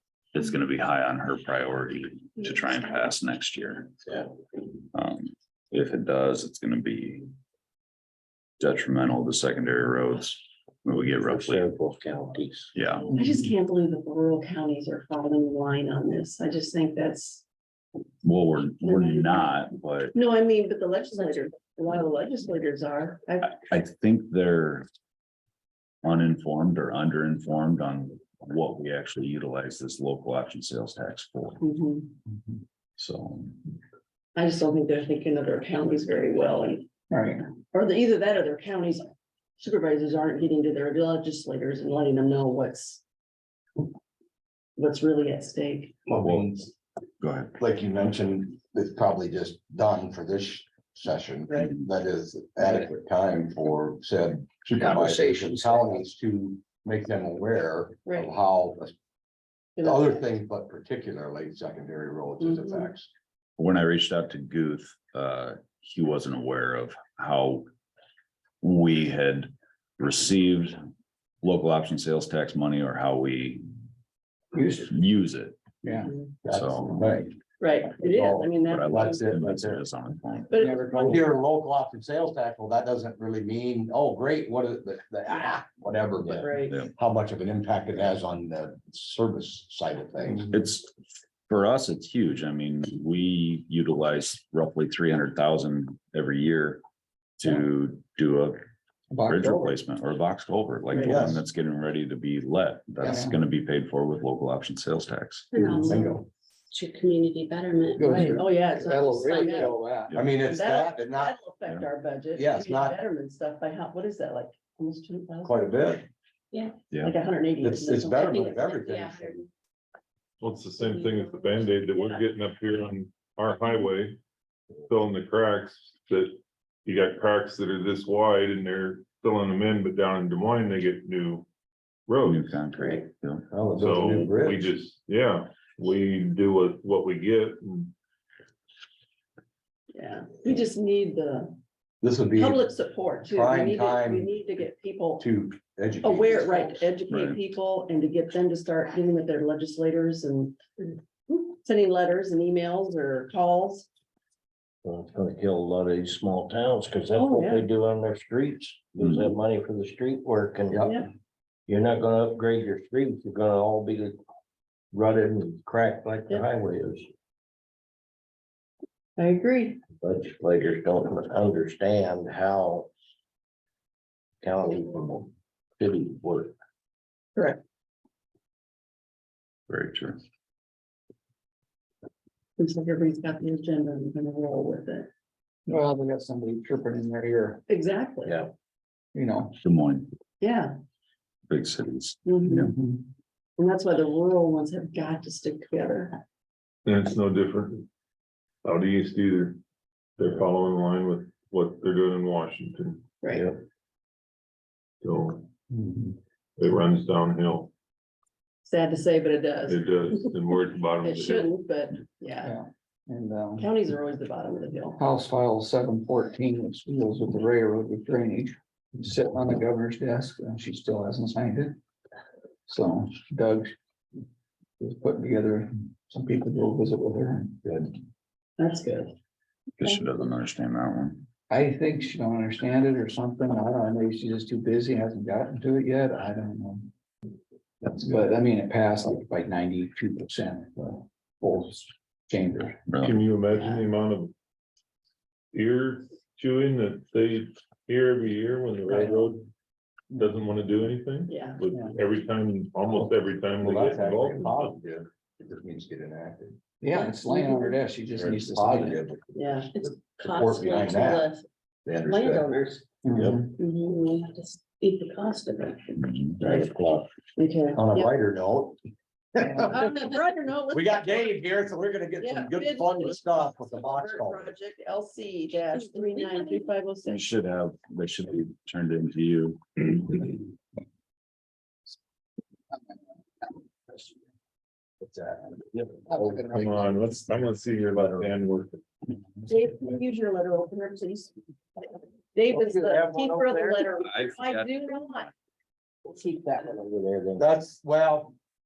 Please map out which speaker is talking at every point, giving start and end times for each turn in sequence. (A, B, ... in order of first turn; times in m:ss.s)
0:00.3-0:04.0 A
0:04.9-0:07.3 A
0:08.6-0:11.7 A
0:11.1-0:12.7 B
0:12.7-0:13.1 A
0:13.1-0:13.5 C
0:13.1-0:17.4 D
0:18.2-0:20.1 A
0:18.8-0:19.4 D
0:20.1-0:23.5 D
0:23.4-0:24.9 A
0:26.0-0:31.6 A
0:31.6-0:32.1 D
0:33.0-0:33.6 A
0:34.3-0:36.9 D
0:37.1-0:37.4 C
0:37.7-0:43.0 D
0:44.8-0:46.0 D
0:46.1-0:46.7 E
0:46.1-0:46.5 A
0:47.2-0:47.5 A
0:47.6-0:58.9 E
0:54.8-0:56.0 C
0:58.0-0:58.3 D
0:59.8-1:00.2 D
0:59.8-1:03.1 E
1:02.4-1:02.9 D
1:03.6-1:07.7 A
1:08.6-1:10.8 A
1:11.4-1:13.6 A
1:14.5-1:14.9 C
1:14.8-1:15.6 A
1:15.8-1:16.1 C
1:16.0-1:16.3 D
1:16.4-1:17.4 E
1:16.5-1:17.1 A
1:17.6-1:19.3 D
1:17.9-1:19.8 E
1:18.6-1:20.6 A
1:20.5-1:21.3 D
1:20.5-1:21.2 C
1:20.9-1:30.6 E
1:26.2-1:26.8 D
1:30.5-1:30.9 A
1:31.5-1:36.8 A
1:37.4-1:38.6 A
1:39.1-1:39.8 C
1:39.3-1:45.5 A
1:40.9-1:41.2 D
1:41.1-1:41.4 E
1:43.0-1:43.4 C
1:45.5-1:46.2 F
1:45.6-1:46.0 C
1:45.6-1:46.1 D
1:45.8-1:46.2 E
1:46.7-1:48.2 F
1:47.9-1:50.2 C
1:48.0-1:49.8 D
1:50.1-1:50.4 A
1:50.1-1:51.3 E
1:50.4-1:55.8 D
1:52.3-1:53.0 E
1:55.4-1:56.1 E
1:57.0-1:58.6 D
1:57.6-1:59.4 E
1:58.2-1:59.2 F
2:00.4-2:04.2 G
2:00.9-2:01.3 F
2:04.9-2:11.5 G
2:12.1-2:12.6 G
2:12.2-2:13.7 A
2:12.7-2:13.0 D
2:13.5-2:14.7 E
2:13.7-2:17.9 G
2:19.9-2:21.6 D
2:22.0-2:22.7 E
2:22.3-2:25.3 D
2:23.3-2:24.3 E
2:25.2-2:26.8 E
2:26.0-2:30.6 D
2:27.1-2:27.4 A
2:31.3-2:33.9 D
2:34.8-2:41.0 B
2:37.1-2:37.7 D
2:40.8-2:41.1 D
2:41.7-2:44.2 B
2:44.9-2:47.1 B
2:49.2-2:49.8 D
2:50.0-2:52.9 B
2:54.4-2:56.5 B
2:57.3-2:57.6 D
2:59.7-3:00.2 A
3:02.6-3:05.1 D
3:05.7-3:07.6 C
3:07.7-3:08.4 D
3:08.2-3:08.5 B
3:09.1-3:09.6 C
3:09.6-3:10.1 A
3:10.4-3:10.7 D
3:11.5-3:12.7 A
3:12.2-3:12.7 D
3:12.5-3:13.0 C
3:13.6-3:16.2 D
3:16.8-3:17.9 G
3:18.6-3:19.6 G
3:20.2-3:23.0 G
3:23.2-3:23.5 D
3:23.3-3:23.6 B
3:25.0-3:25.5 G
3:25.7-3:26.1 C
3:26.6-3:27.7 G
3:28.6-3:30.3 D
3:29.7-3:31.5 G
3:31.0-3:32.5 D
3:32.4-3:33.7 C
3:33.6-3:35.0 D
3:35.0-3:41.8 C
3:42.7-3:43.7 C
3:44.8-3:48.0 C
3:48.6-3:49.1 D
3:49.8-3:51.2 A
3:51.5-3:56.9 C
3:57.8-4:02.8 C
4:02.9-4:03.2 A
4:03.0-4:04.3 G
4:03.5-4:03.8 D
4:05.5-4:09.5 G
4:10.1-4:14.8 G
4:11.3-4:11.6 D
4:12.9-4:16.6 E
4:16.8-4:19.0 C
4:17.3-4:17.7 D
4:18.1-4:21.3 E
4:19.3-4:19.7 D
4:19.7-4:21.4 F
4:21.8-4:22.5 E
4:22.0-4:22.8 F
4:23.0-4:23.5 C
4:23.1-4:23.4 B
4:23.6-4:24.0 D
4:23.6-4:26.0 F
4:26.4-4:26.7 D
4:26.4-4:27.0 B
4:27.4-4:28.1 D
4:27.7-4:28.8 E
4:29.3-4:29.8 E
4:29.4-4:29.9 C
4:29.7-4:31.4 D
4:30.7-4:34.5 E
4:32.2-4:37.3 D
4:37.0-4:39.8 A
4:42.7-4:44.1 C
4:45.7-4:46.4 B
4:46.1-4:47.0 C
4:46.5-4:48.8 G
4:49.4-4:55.3 D
4:52.5-4:53.9 B
4:54.0-4:54.7 A
4:56.0-4:57.5 B
4:57.4-4:58.4 E